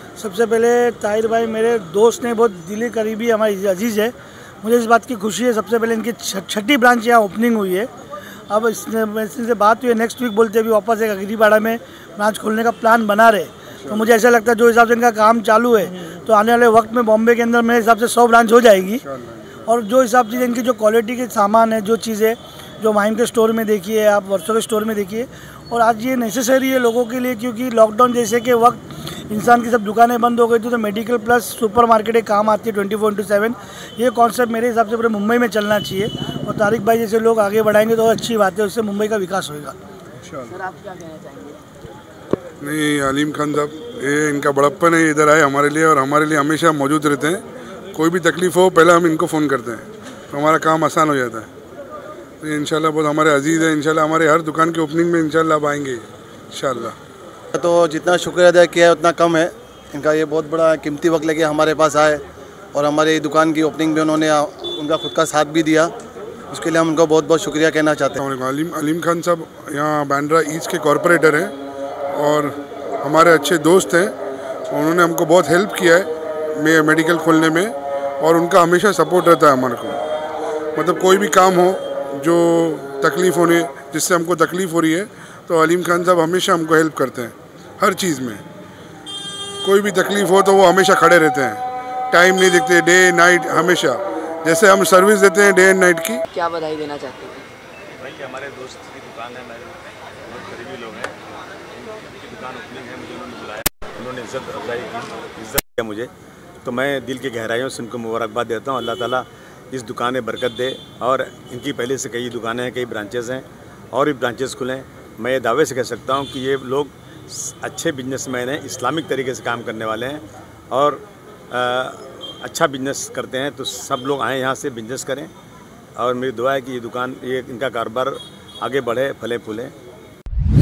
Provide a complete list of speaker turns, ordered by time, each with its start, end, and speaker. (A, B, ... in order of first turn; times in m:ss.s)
0:00.2-0:07.9 A
0:08.5-0:19.0 A
0:19.0-0:19.7 B
0:19.7-0:39.8 A
0:40.2-0:40.5 B
0:40.5-0:41.6 C
0:42.6-0:47.4 B
0:47.9-0:51.5 B
0:52.4-0:56.9 B
0:57.5-1:02.2 D
1:02.7-1:05.9 D
1:06.5-1:08.2 D
1:08.2-1:11.5 B
1:12.1-1:14.1 B
1:14.7-1:16.1 B
1:16.6-1:20.0 B
1:20.8-1:28.4 B
1:29.6-1:36.2 B
1:36.3-1:37.4 C
1:37.9-1:41.2 E
1:41.7-1:46.1 E
1:46.6-2:05.3 E
2:06.0-2:09.7 E